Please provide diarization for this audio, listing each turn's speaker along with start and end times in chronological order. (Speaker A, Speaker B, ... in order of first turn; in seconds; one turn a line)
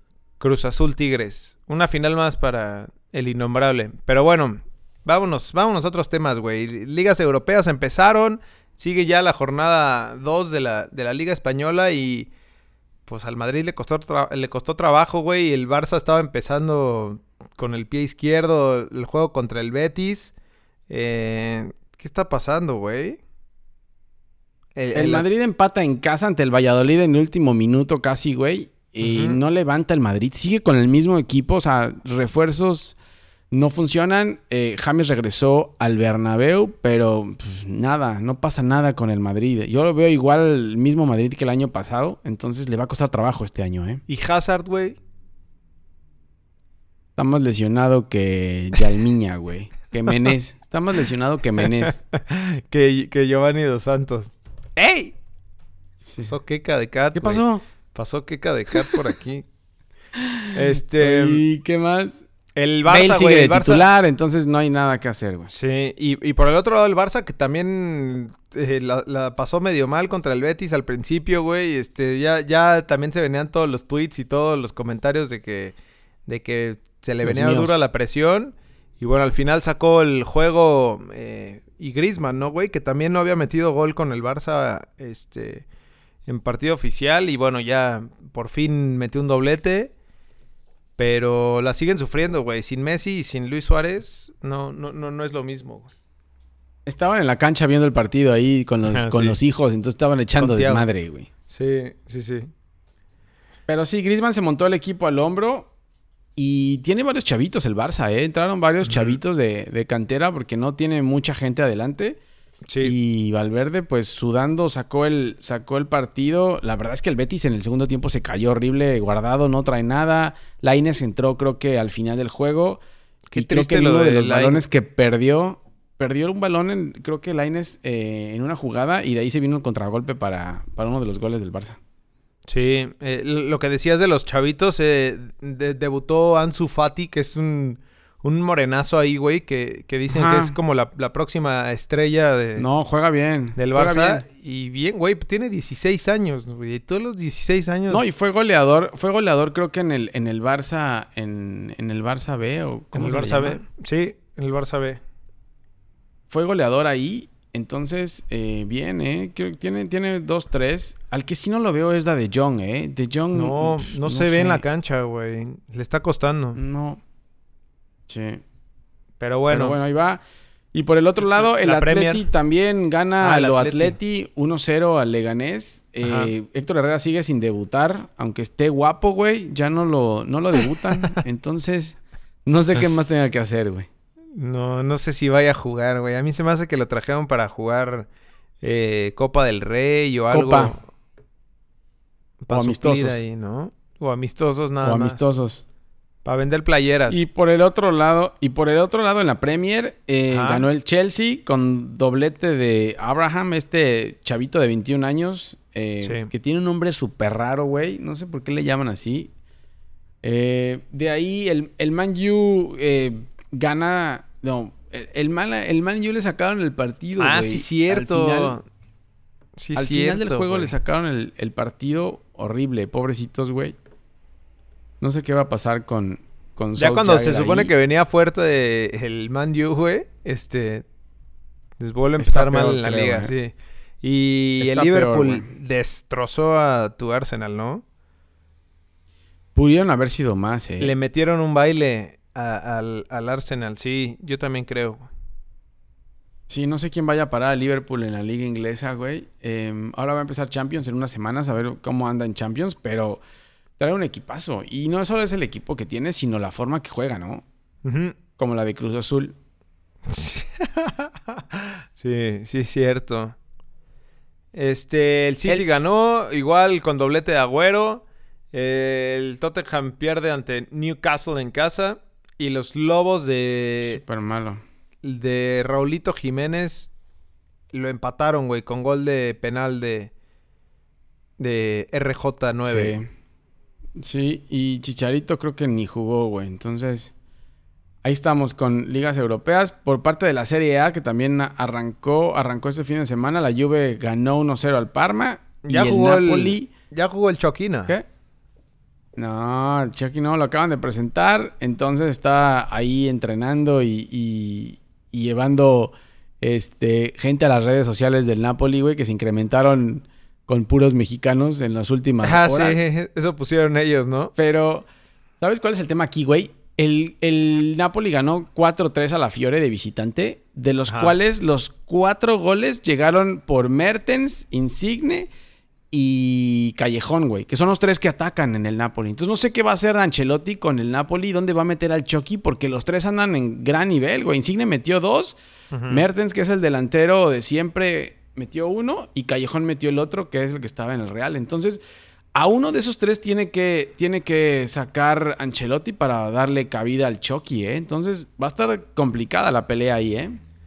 Speaker A: 0.4-12.3
Speaker A: 13.1-20.3
Speaker A: 20.9-23.2
Speaker A: 24.8-25.3
Speaker B: 24.9-33.0
Speaker A: 29.0-29.4
Speaker B: 33.5-44.0
Speaker A: 44.1-45.0
Speaker B: 47.2-52.0
Speaker A: 51.6-55.1
Speaker B: 56.1-56.3
Speaker A: 56.2-59.5
Speaker B: 57.1-57.6
Speaker B: 60.1-62.2
Speaker A: 60.5-61.4
Speaker A: 62.6-63.9
Speaker B: 62.9-65.5
Speaker A: 65.5-75.8
Speaker A: 76.3-85.7
Speaker B: 77.2-77.7
Speaker A: 86.3-89.9
Speaker A: 91.0-95.9
Speaker B: 96.9-101.3
Speaker A: 98.9-99.4
Speaker A: 100.4-100.8
Speaker A: 101.5-102.5
Speaker B: 103.7-105.7
Speaker B: 106.4-112.2
Speaker A: 108.8-109.2
Speaker A: 112.7-113.0
Speaker B: 112.8-122.8
Speaker A: 123.3-124.7
Speaker B: 123.4-131.8
Speaker A: 132.5-142.7
Speaker B: 140.1-140.6
Speaker B: 142.6-144.2
Speaker A: 143.6-148.1
Speaker B: 147.9-153.6
Speaker A: 152.9-155.0
Speaker B: 156.3-164.6
Speaker A: 163.3-166.6
Speaker B: 166.6-167.0
Speaker B: 168.1-168.4
Speaker A: 169.2-169.8
Speaker B: 169.5-170.2
Speaker B: 170.7-183.9
Speaker A: 171.3-172.2
Speaker A: 173.2-174.0
Speaker A: 176.0-176.3
Speaker A: 184.4-188.1
Speaker A: 188.6-190.8
Speaker B: 190.3-190.7
Speaker A: 192.4-195.3
Speaker B: 192.5-193.2
Speaker B: 194.8-195.6
Speaker A: 196.2-197.2
Speaker B: 197.1-209.3
Speaker A: 200.3-200.7
Speaker A: 206.0-206.3
Speaker B: 210.2-218.6
Speaker A: 217.2-218.6
Speaker A: 219.6-220.7
Speaker B: 219.8-223.8
Speaker B: 225.0-227.7
Speaker A: 226.8-230.8
Speaker A: 231.8-237.8
Speaker B: 232.2-233.3
Speaker B: 234.6-235.5
Speaker B: 239.6-240.9
Speaker A: 240.8-245.1
Speaker B: 246.5-253.2
Speaker B: 253.8-257.4
Speaker A: 257.9-258.2
Speaker B: 258.4-259.4
Speaker A: 260.1-263.4
Speaker A: 264.5-274.0
Speaker B: 273.8-274.6
Speaker A: 275.0-276.9
Speaker A: 277.7-280.1
Speaker A: 281.4-283.0
Speaker B: 282.6-283.1
Speaker B: 284.0-287.1
Speaker B: 288.0-296.7
Speaker A: 295.6-297.9
Speaker B: 299.2-312.8
Speaker A: 312.2-314.3
Speaker B: 314.4-314.9
Speaker B: 315.4-325.3
Speaker A: 320.9-321.2
Speaker B: 325.9-335.4
Speaker A: 335.7-336.1
Speaker B: 335.9-341.8
Speaker B: 342.3-350.3